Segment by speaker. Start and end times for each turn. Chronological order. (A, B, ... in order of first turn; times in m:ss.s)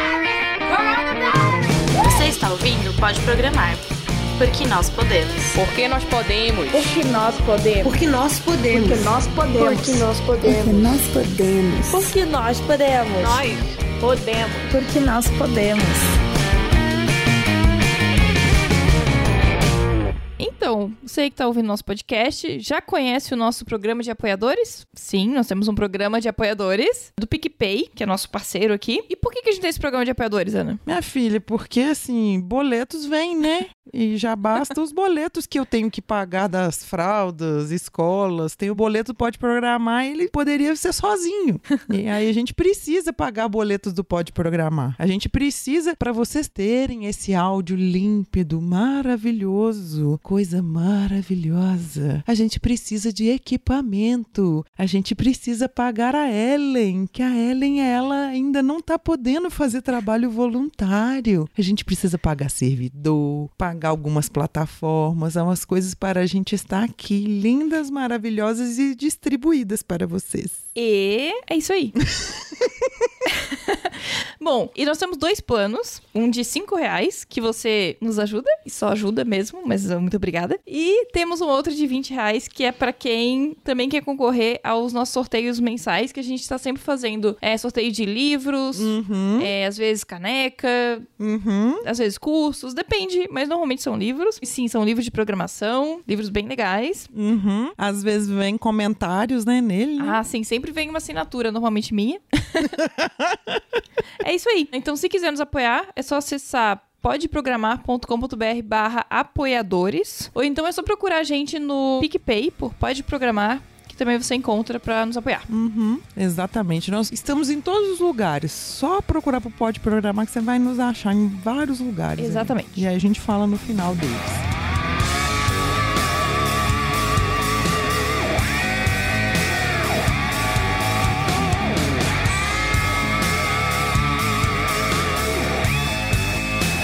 0:02.0-0:03.8 A
0:04.4-0:05.6 A
0:05.5-0:07.1 B
0:06.7-0:07.9 A
0:06.8-0:07.9 C
0:07.8-0:10.9 D
0:08.7-0:13.5 C
0:09.6-0:12.1 A
0:14.8-0:15.9 C
0:20.4-0:30.8 B
0:30.8-1:10.6 E
1:10.7-1:12.0 B
1:13.3-1:31.1 B
1:28.7-1:29.5 E
1:31.2-1:31.8 E
1:31.8-1:37.1 B
1:37.1-1:40.2 E
1:40.0-1:42.8 B
1:42.8-1:43.5 E
1:44.2-1:55.5 B
1:55.5-2:04.4 E
2:02.2-2:02.8 B